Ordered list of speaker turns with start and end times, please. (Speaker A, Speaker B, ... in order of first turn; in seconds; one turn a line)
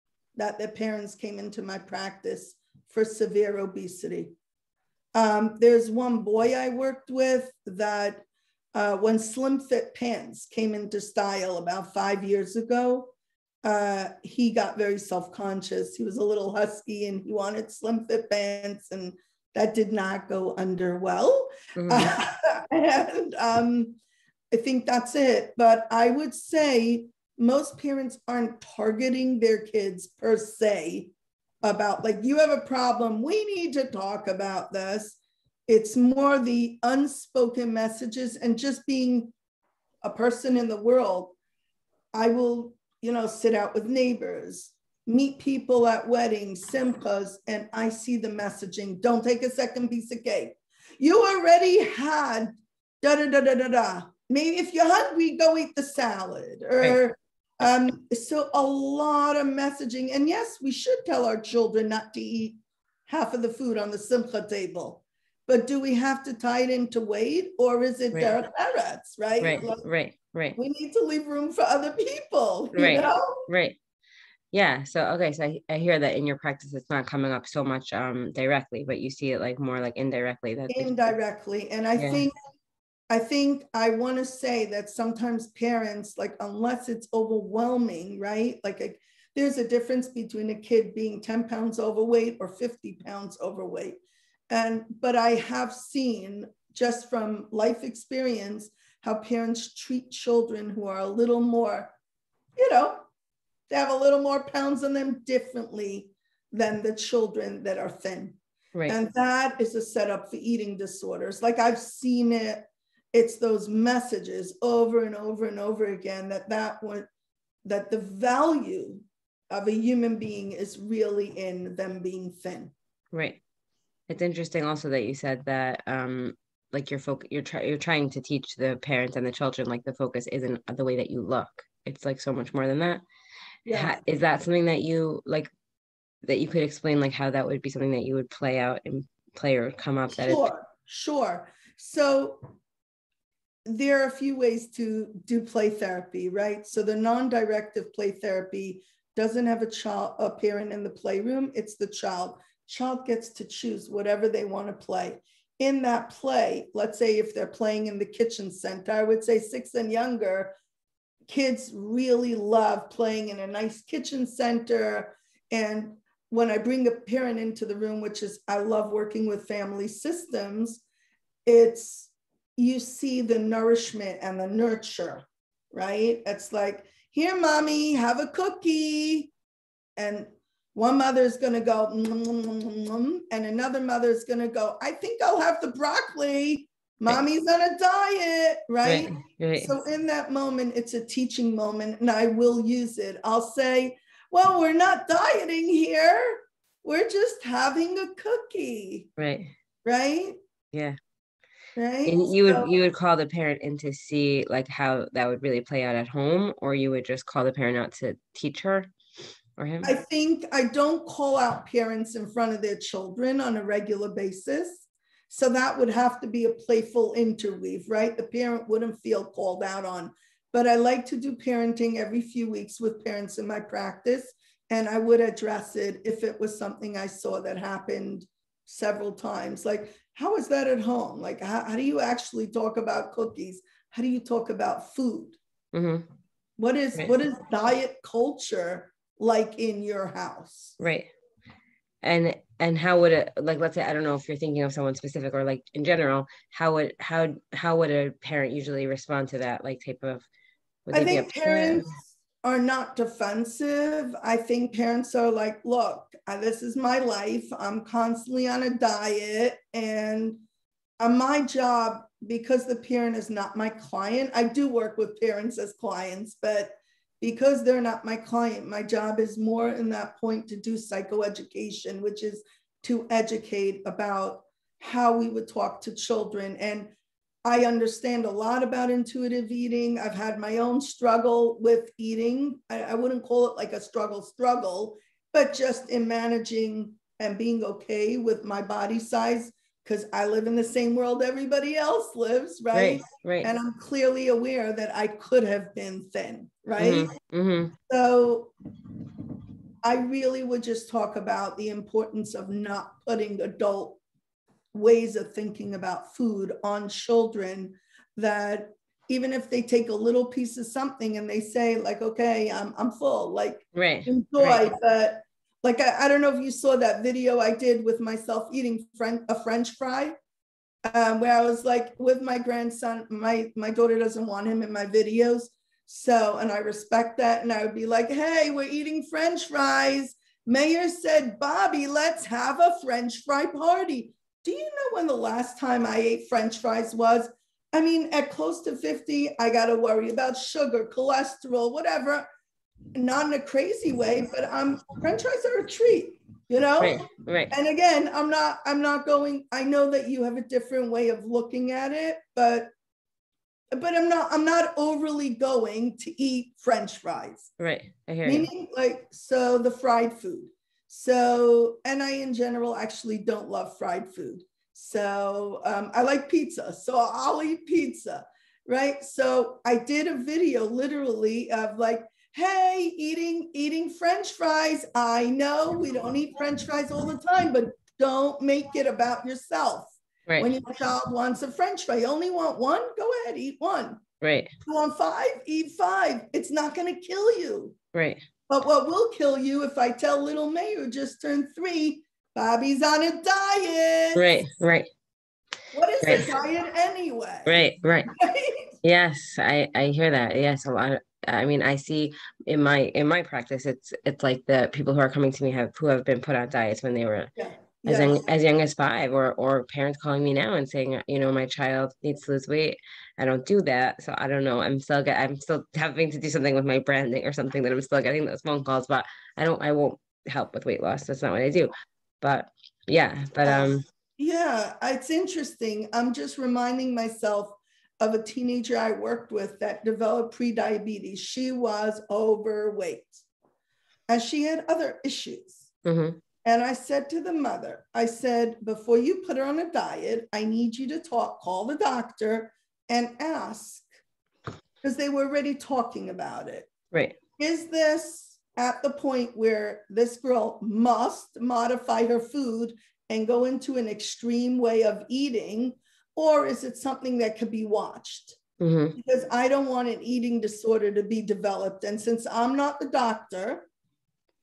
Speaker A: 0.4-4.3
Speaker A: 5.2-24.0
Speaker B: 21.8-22.2
Speaker A: 24.5-39.3
Speaker A: 40.0-41.4
Speaker A: 42.1-52.5
Speaker A: 53.0-69.8
Speaker B: 69.4-70.6
Speaker A: 70.6-73.4
Speaker B: 72.7-73.8
Speaker B: 74.5-81.1
Speaker A: 80.7-82.3
Speaker B: 82.0-82.2
Speaker A: 83.1-101.9
Speaker A: 102.6-103.1
Speaker A: 103.7-117.1
Speaker A: 117.7-122.7
Speaker B: 123.1-123.4
Speaker B: 124.1-133.0
Speaker A: 133.7-133.9
Speaker B: 133.7-135.5
Speaker B: 136.3-140.5
Speaker A: 140.2-142.4
Speaker A: 143.7-160.5
Speaker A: 161.3-170.8
Speaker A: 171.5-179.3
Speaker A: 180.0-199.1
Speaker B: 188.8-189.8
Speaker B: 199.2-199.5
Speaker A: 199.8-200.4
Speaker A: 201.8-202.7
Speaker B: 202.1-208.9
Speaker B: 209.6-209.9
Speaker A: 209.8-235.4
Speaker B: 235.7-236.1
Speaker A: 236.6-240.7
Speaker B: 240.8-241.1
Speaker B: 242.0-250.3
Speaker B: 250.9-251.9
Speaker A: 250.9-260.4
Speaker A: 261.0-276.9
Speaker A: 277.4-297.1
Speaker B: 292.7-293.5
Speaker B: 296.8-297.8
Speaker A: 297.9-298.5
Speaker A: 299.8-304.0
Speaker A: 304.7-320.1
Speaker B: 313.8-314.7
Speaker A: 320.9-342.3
Speaker A: 342.9-347.0
Speaker B: 346.8-347.5
Speaker A: 347.5-352.7
Speaker A: 353.7-357.5
Speaker B: 357.6-358.5
Speaker A: 358.3-384.0
Speaker B: 384.2-384.5
Speaker A: 384.7-387.8
Speaker B: 387.9-388.2
Speaker A: 388.5-394.4
Speaker B: 394.1-394.9
Speaker A: 395.7-398.7
Speaker B: 396.0-396.4
Speaker B: 397.5-398.1
Speaker B: 398.8-407.3
Speaker A: 407.4-408.2
Speaker B: 407.9-423.9
Speaker A: 423.4-433.2
Speaker A: 434.1-435.7
Speaker B: 435.9-436.2
Speaker A: 436.4-443.9
Speaker A: 444.8-446.7
Speaker A: 447.4-458.4
Speaker B: 458.6-459.0
Speaker A: 459.0-463.7